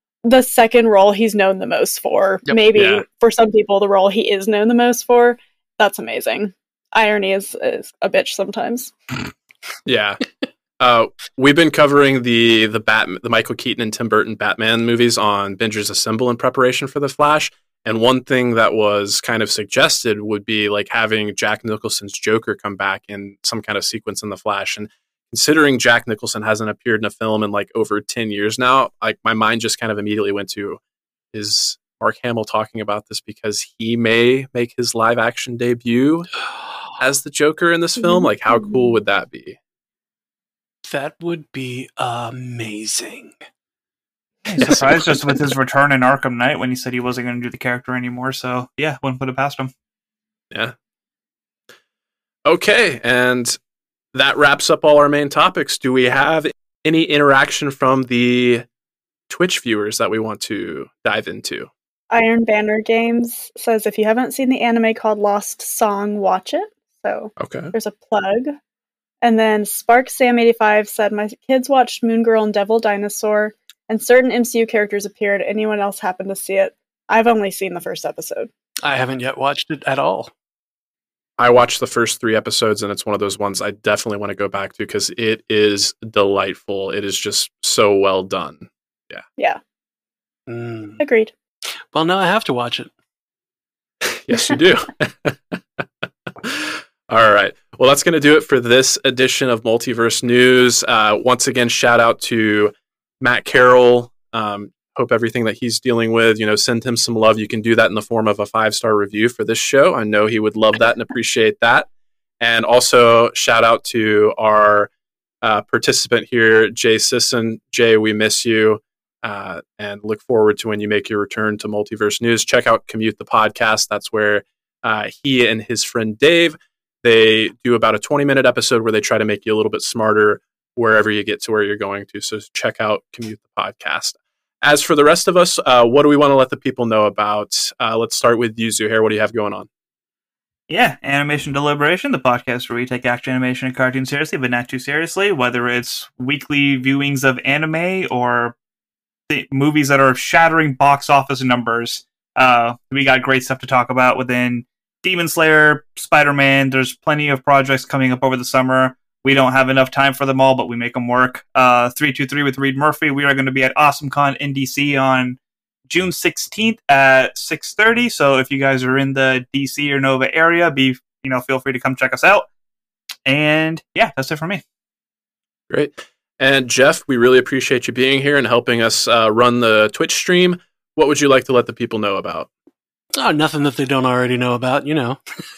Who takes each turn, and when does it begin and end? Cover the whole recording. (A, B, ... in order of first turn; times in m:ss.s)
0:00.2-0:08.9 A
0:02.7-0:03.0 B
0:09.9-0:10.2 B
0:10.8-0:30.8 B
0:31.3-0:36.3 B
0:37.0-0:39.6 B
0:40.8-0:43.4 C
0:44.5-0:49.7 D
0:44.6-0:45.3 C
0:52.5-0:53.6 B
0:54.1-0:58.7 B
0:59.3-1:01.7 B
1:02.1-1:08.6 A
1:07.4-1:07.7 B
1:09.2-1:18.5 A
1:18.8-1:20.3 C
1:21.4-1:29.2 B
1:30.5-1:31.0 C
1:31.0-1:31.3 A
1:31.9-1:32.9 C
1:34.0-1:35.8 B
1:36.4-1:51.9 B
1:52.4-1:54.9 B
1:55.4-2:19.7 B
2:20.7-2:28.6 D
2:29.3-2:52.5 D
2:53.3-2:54.6 D
2:55.7-3:02.5 B
3:03.2-3:05.2 C